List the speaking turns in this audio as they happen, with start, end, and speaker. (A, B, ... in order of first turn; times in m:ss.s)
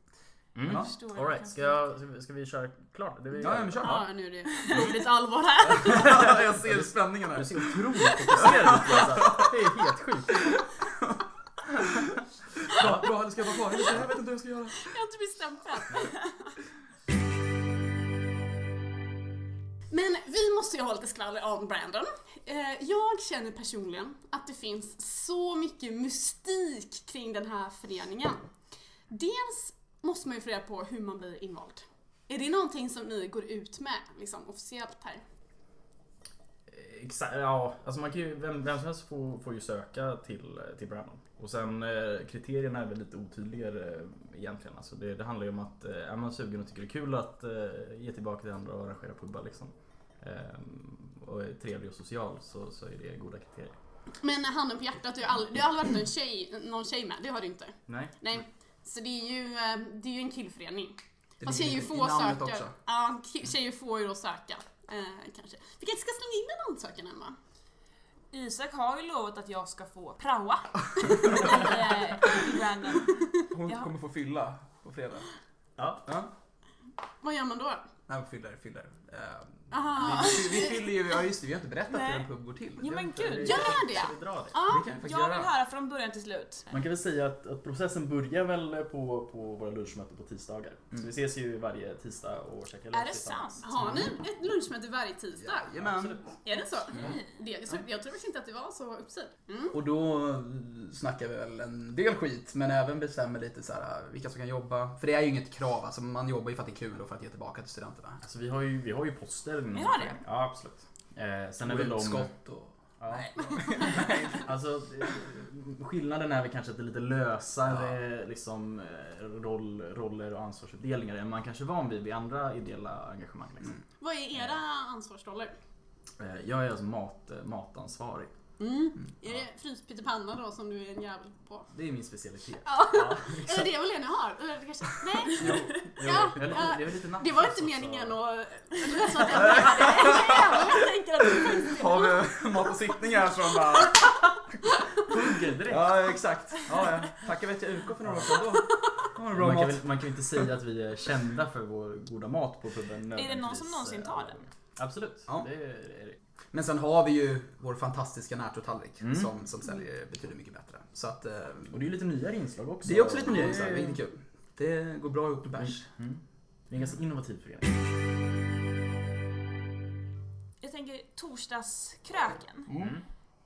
0:00.6-0:04.1 A
0:00.6-0:00.9 B
0:00.7-0:01.8 C
0:03.3-0:04.1 B
0:03.8-0:06.4 D
0:04.5-0:04.9 C
0:05.6-0:09.5 B
0:05.9-0:10.5 A
0:12.7-0:14.9 B
0:12.7-0:13.1 A
0:14.8-0:16.2 D
0:19.9-0:28.4 D
0:29.1-0:35.2 D
0:36.7-0:53.7 A
0:54.2-1:07.4 D
0:57.9-0:58.4 A
1:01.4-1:02.7 B
1:08.3-1:13.9 C
1:11.0-1:11.6 B
1:13.5-1:15.3 B
1:15.8-1:16.0 A
1:17.2-1:17.9 D
1:18.1-1:23.4 B
1:19.7-1:20.8 D
1:21.9-1:24.0 C
1:23.1-1:24.6 A
1:23.4-1:24.8 D
1:24.6-1:26.7 C
1:24.6-1:25.5 B
1:26.7-1:33.6 A
1:32.9-1:33.6 C
1:33.6-1:35.7 D
1:33.7-1:34.1 B
1:35.4-1:36.2 B
1:35.8-1:36.3 A
1:36.4-1:39.8 D
1:36.9-1:37.2 C
1:39.7-1:48.2 B
1:48.2-1:52.3 A
1:49.7-1:50.2 C
1:51.6-1:54.4 B
1:53.0-2:03.8 A
1:53.6-1:54.1 D
1:57.6-1:58.0 B
2:04.0-2:05.5 D
2:06.2-2:08.3 A
2:08.6-2:11.7 D
2:11.7-2:13.7 A
2:12.6-2:22.2 D
2:15.3-2:16.4 B
2:15.4-2:18.2 A
2:19.3-2:20.6 B
2:21.5-2:24.2 B
2:25.0-2:26.0 A
2:25.6-2:29.8 B
2:28.0-2:28.4 A
2:29.3-2:36.2 A
2:33.1-2:34.4 C
2:36.5-2:41.8 B
2:39.0-2:39.3 A
2:41.7-2:44.0 A
2:42.8-2:45.9 B
2:45.6-2:47.8 A
2:50.6-2:52.7 C
2:52.7-2:53.0 B
2:52.8-2:53.0 A